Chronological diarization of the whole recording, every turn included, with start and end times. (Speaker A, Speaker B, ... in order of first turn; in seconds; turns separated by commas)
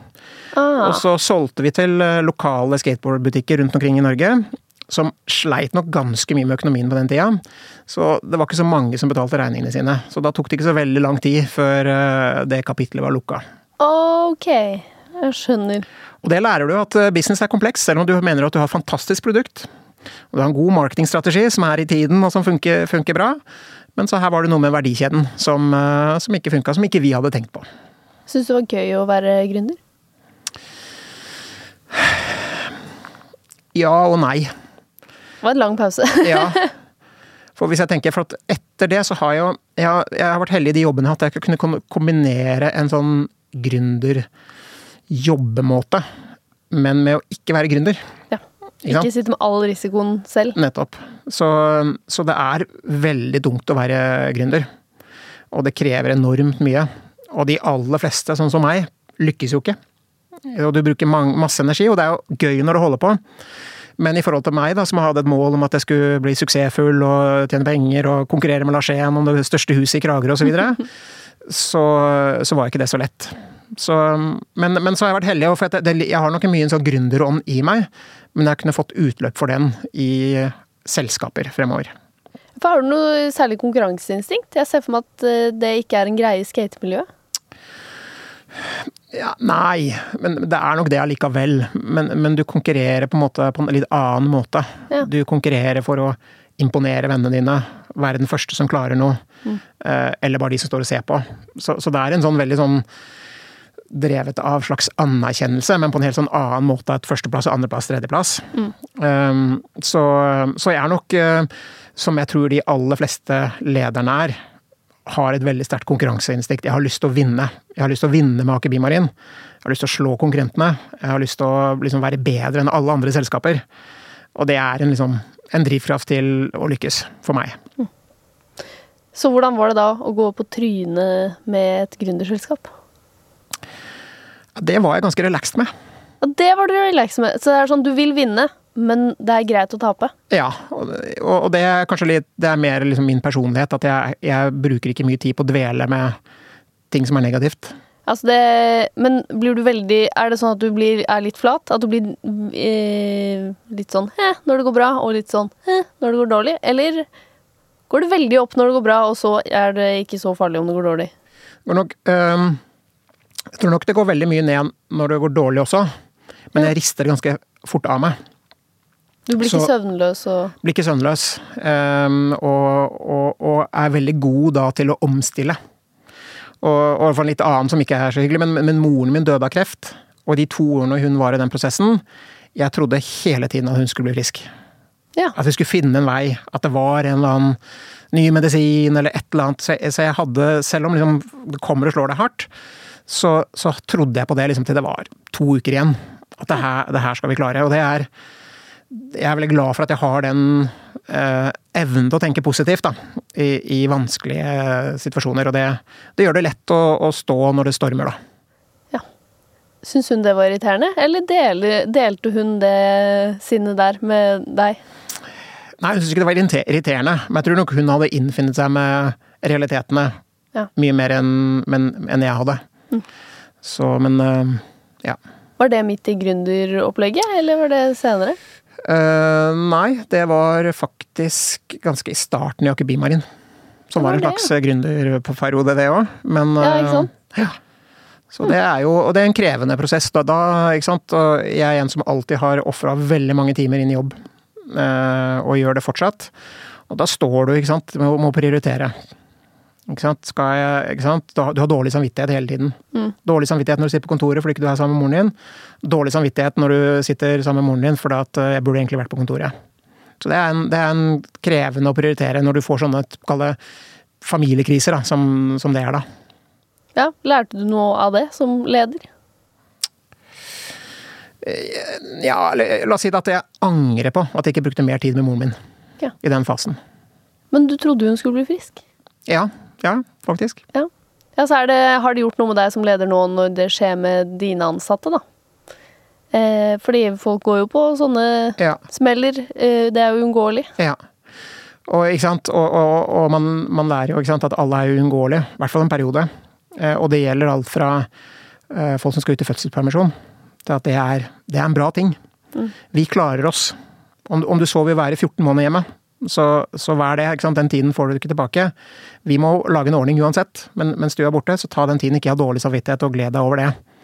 Speaker A: 0.5-1.0, Speaker B: 0.8-13.4, Speaker A: 13.8-15.8, Speaker B: 16.2-19.7, Speaker B: 20.3-23.4, Speaker B: 23.9-27.7, Speaker A: 28.3-29.8, Speaker B: 31.9-32.5, Speaker B: 33.7-34.5, Speaker A: 35.4-36.7, Speaker B: 36.2-36.6, Speaker B: 37.5-44.3, Speaker B: 45.1-46.0, Speaker B: 46.7-48.0, Speaker A: 48.3-50.5, Speaker B: 48.8-49.1, Speaker B: 50.5-54.7, Speaker B: 55.5-59.8, Speaker B: 60.4-63.2, Speaker B: 64.0-70.8, Speaker B: 71.4-81.9, Speaker A: 82.6-87.1, Speaker B: 89.1-99.2, Speaker B: 99.8-102.8, Speaker B: 103.9-114.4, Speaker B: 115.0-119.1, Speaker B: 119.6-123.6, Speaker B: 124.3-127.6, Speaker A: 129.1-132.7, Speaker B: 134.6-135.7, Speaker A: 136.2-140.1, Speaker B: 140.3-146.2, Speaker B: 146.9-147.7, Speaker A: 148.1-157.1, Speaker A: 157.9-161.1, Speaker B: 161.7-162.6, Speaker B: 163.5-165.9, Speaker B: 166.5-168.2, Speaker A: 169.3-170.5, Speaker B: 169.4-169.7, Speaker B: 170.6-175.6, Speaker B: 176.6-182.0, Speaker B: 182.5-184.5, Speaker B: 185.3-187.6, Speaker B: 188.1-192.5, Speaker B: 193.1-198.1, Speaker B: 198.9-208.2, Speaker A: 209.8-214.8, Speaker B: 215.8-220.2, Speaker B: 220.7-222.6, Speaker B: 223.6-225.2, Speaker A: 225.6-228.4, Speaker B: 228.8-233.2, Speaker B: 233.9-237.6, Speaker A: 234.0-234.5, Speaker A: 236.6-237.1, Speaker B: 238.3-246.3, Speaker B: 246.9-248.9, Speaker B: 249.9-259.5, Speaker B: 260.2-263.6, Speaker B: 264.2-266.0, Speaker A: 266.9-269.1, Speaker B: 271.4-275.6, Speaker B: 276.2-276.8, Speaker A: 277.5-278.8, Speaker B: 279.3-280.6, Speaker A: 280.7-285.2, Speaker A: 286.3-290.7, Speaker B: 291.9-298.1, Speaker B: 298.7-300.1, Speaker B: 300.6-302.2, Speaker B: 302.9-308.7, Speaker B: 309.2-313.8